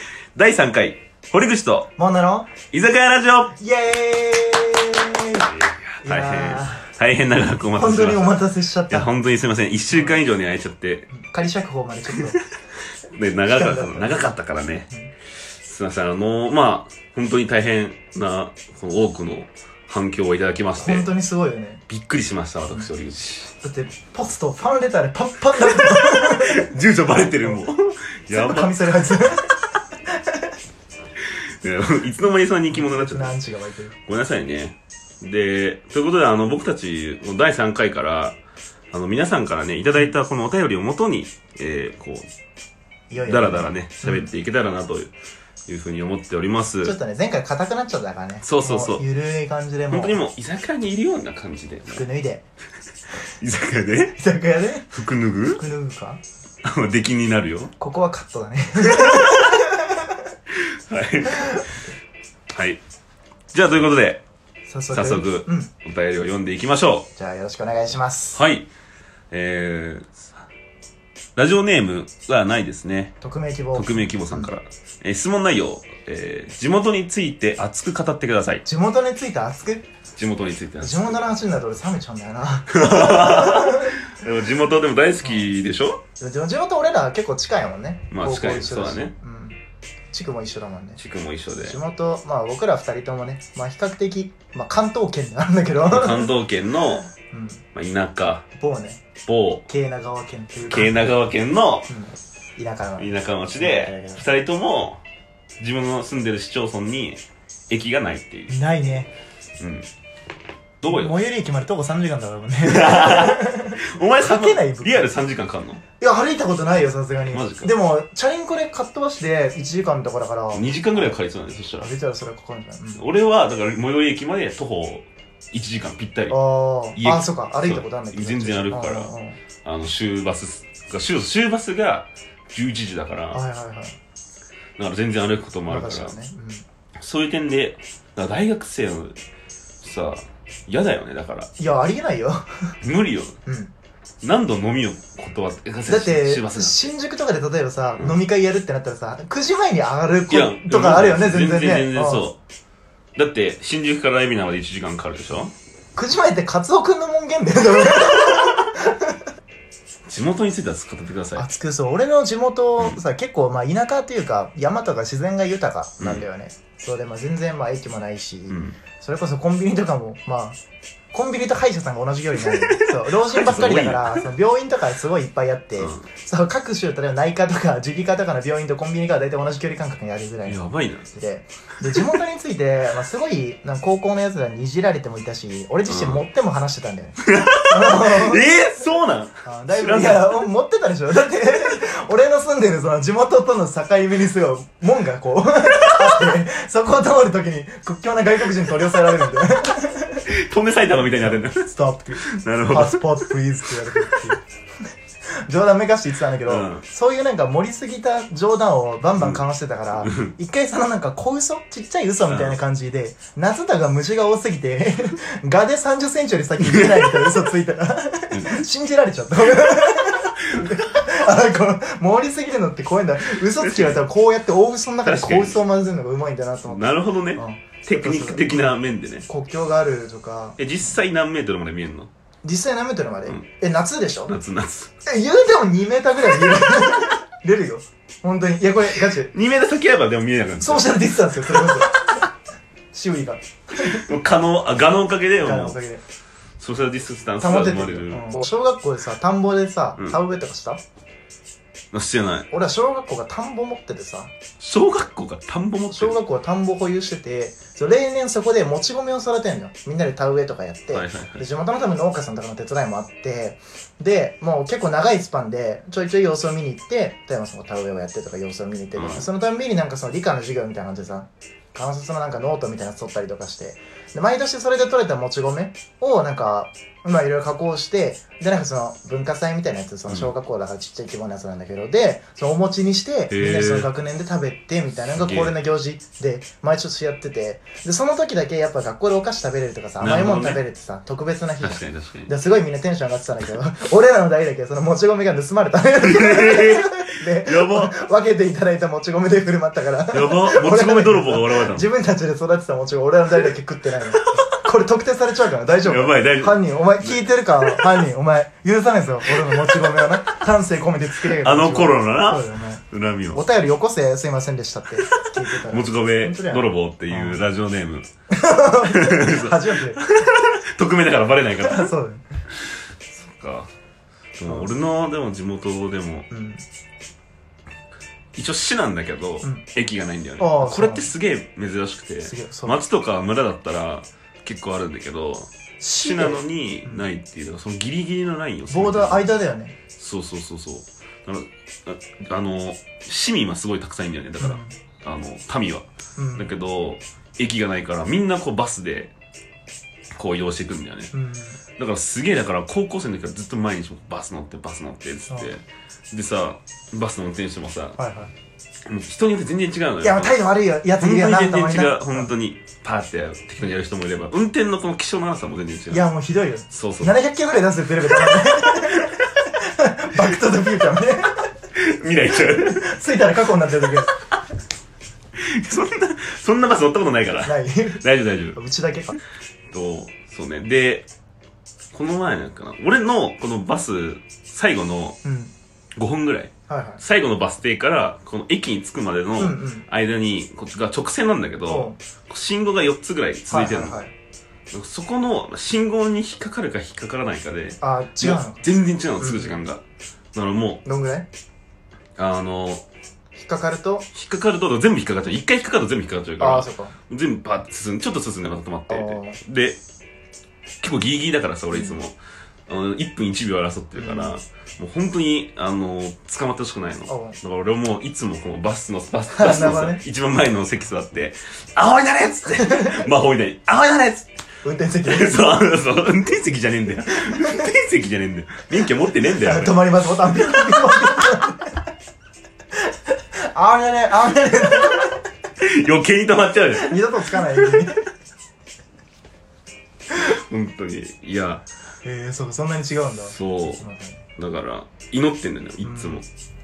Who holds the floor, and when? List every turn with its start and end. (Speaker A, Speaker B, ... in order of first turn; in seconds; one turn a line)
Speaker A: 0.3-1.9
Speaker B: 2.0-2.5
Speaker A: 2.7-3.5
Speaker B: 3.5-5.5
Speaker A: 5.5-11.1
Speaker B: 6.0-6.9
Speaker B: 7.7-9.1
Speaker B: 9.9-10.2
Speaker B: 11.1-12.4
Speaker A: 13.1-14.9
Speaker B: 13.5-14.3
Speaker A: 15.5-21.1
Speaker B: 20.8-21.8
Speaker A: 21.9-23.5
Speaker B: 23.6-27.6
Speaker A: 25.7-29.1
Speaker B: 28.3-30.1
Speaker A: 31.2-33.4
Speaker B: 32.7-33.9
Speaker A: 34.0-38.4
Speaker A: 38.9-42.3
Speaker B: 43.1-44.3
Speaker A: 43.2-45.1
Speaker A: 45.7-46.9
Speaker B: 46.8-50.2
Speaker A: 48.4-49.0
Speaker A: 49.9-52.0
Speaker B: 51.9-52.5
Speaker A: 53.4-54.2
Speaker B: 54.2-54.9
Speaker A: 54.9-55.6
Speaker B: 55.5-56.2
Speaker A: 56.6-57.7
Speaker B: 57.8-60.1
Speaker A: 60.6-61.7
Speaker B: 61.3-61.6
Speaker A: 62.5-62.8
Speaker A: 63.5-64.2
Speaker B: 64.7-65.7
Speaker A: 64.9-67.1
Speaker B: 67.2-68.4
Speaker A: 68.3-68.7
Speaker A: 69.3-70.3
Speaker A: 71.3-73.2
Speaker B: 73.2-74.5
Speaker A: 73.7-78.6
Speaker B: 78.6-79.8
Speaker A: 80.1-81.3
Speaker B: 80.8-84.0
Speaker A: 82.7-86.0
Speaker B: 86.2-89.6
Speaker A: 88.1-89.1
Speaker B: 90.1-91.0
Speaker A: 91.0-91.8
Speaker B: 91.6-96.3
Speaker A: 95.9-97.1
Speaker B: 97.1-97.6
Speaker A: 97.7-98.5
Speaker B: 98.5-99.0
Speaker A: 99.2-99.7
Speaker B: 99.7-100.9
Speaker A: 100.7-101.9
Speaker B: 101.9-104.2
Speaker A: 103.0-105.0
Speaker A: 105.6-108.5
Speaker B: 108.5-109.1
Speaker A: 109.6-109.9
Speaker A: 110.8-111.2
Speaker B: 110.9-115.2
Speaker A: 112.6-115.8
Speaker B: 116.0-121.2
Speaker A: 117.3-117.7
Speaker A: 120.5-121.9
Speaker B: 121.8-123.0
Speaker A: 122.9-126.4
Speaker B: 126.3-129.4
Speaker A: 126.9-129.1
Speaker A: 129.6-133.4
Speaker B: 133.3-134.0
Speaker A: 134.8-136.2
Speaker B: 135.7-136.6
Speaker A: 137.0-139.2
Speaker A: 139.8-141.5
Speaker B: 141.6-142.8
Speaker A: 142.8-143.4
Speaker B: 143.4-143.7
Speaker A: 144.2-146.9
Speaker B: 145.9-152.3
Speaker A: 150.3-152.4
Speaker A: 153.2-155.5
Speaker B: 155.9-159.2
Speaker A: 160.1-161.4
Speaker B: 161.3-170.6
Speaker A: 166.0-166.2
Speaker A: 168.5-168.8
Speaker B: 171.1-188.4
Speaker A: 172.4-174.2
Speaker A: 175.8-176.1
Speaker A: 180.4-181.1
Speaker A: 185.9-186.2
Speaker A: 187.2-190.4
Speaker B: 189.4-200.2
Speaker A: 200.3-201.7
Speaker B: 201.1-204.4
Speaker A: 202.2-203.3
Speaker A: 204.0-204.3
Speaker B: 205.4-230.6
Speaker A: 206.4-206.8
Speaker A: 210.0-210.3
Speaker A: 212.3-212.6
Speaker A: 218.3-218.6
Speaker A: 223.3-224.0
Speaker A: 225.0-225.6
Speaker A: 226.7-229.3
Speaker A: 230.6-232.1
Speaker B: 232.4-234.3
Speaker A: 234.3-234.9
Speaker B: 235.1-239.3
Speaker A: 239.3-241.7
Speaker B: 240.6-242.3
Speaker B: 242.9-244.0
Speaker A: 243.9-245.8
Speaker B: 245.4-246.0
Speaker A: 246.6-248.4
Speaker B: 247.4-250.8
Speaker A: 251.9-252.5
Speaker B: 252.5-254.3
Speaker A: 254.6-256.2
Speaker B: 255.9-317.4
Speaker A: 260.9-261.4
Speaker A: 268.9-269.3
Speaker A: 283.3-283.9
Speaker A: 284.9-285.6
Speaker A: 290.0-290.6
Speaker A: 291.6-292.3
Speaker A: 296.0-298.0
Speaker A: 300.1-301.9
Speaker A: 305.8-308.0
Speaker A: 309.4-309.9
Speaker A: 311.2-313.4
Speaker A: 315.0-318.1
Speaker B: 318.3-320.1
Speaker A: 318.6-321.9
Speaker B: 321.6-322.2
Speaker A: 322.6-323.7
Speaker A: 324.4-326.3
Speaker B: 326.3-326.6
Speaker A: 328.3-339.3
Speaker B: 330.4-331.1
Speaker B: 332.2-332.8
Speaker B: 335.8-337.1
Speaker B: 338.7-339.8
Speaker A: 339.9-349.1
Speaker B: 344.4-344.7
Speaker B: 346.2-346.5
Speaker A: 350.1-351.1
Speaker B: 351.1-351.6
Speaker A: 351.8-358.0
Speaker B: 358.0-358.3
Speaker A: 358.9-360.4
Speaker B: 360.0-362.3
Speaker A: 360.9-366.1
Speaker B: 365.9-371.4
Speaker A: 366.7-367.1
Speaker A: 368.3-369.1
Speaker A: 371.7-372.9
Speaker B: 372.4-374.1
Speaker A: 375.4-378.6
Speaker B: 377.4-378.0
Speaker B: 378.5-379.2
Speaker A: 379.7-381.1
Speaker A: 381.9-385.2
Speaker B: 385.2-385.5
Speaker A: 386.0-394.0
Speaker B: 386.7-387.0
Speaker B: 389.4-389.9
Speaker B: 391.7-392.0
Speaker B: 393.5-394.1
Speaker A: 394.7-399.8
Speaker B: 397.8-399.6
Speaker A: 400.3-400.8
Speaker B: 400.8-401.3
Speaker A: 402.2-402.8
Speaker B: 403.4-404.1
Speaker A: 404.1-409.8
Speaker B: 406.4-406.9
Speaker B: 408.9-409.4
Speaker A: 410.8-412.2
Speaker A: 412.7-424.3
Speaker B: 413.9-414.4
Speaker B: 417.1-417.4
Speaker B: 419.3-420.0
Speaker B: 422.6-423.0
Speaker B: 424.6-425.6
Speaker A: 425.0-431.1
Speaker B: 427.3-427.6
Speaker B: 429.2-431.8
Speaker B: 433.1-435.2
Speaker A: 435.6-437.8
Speaker B: 436.7-438.0
Speaker A: 440.1-441.6
Speaker B: 442.0-444.2
Speaker A: 443.3-443.8
Speaker A: 444.4-446.2
Speaker B: 445.8-446.2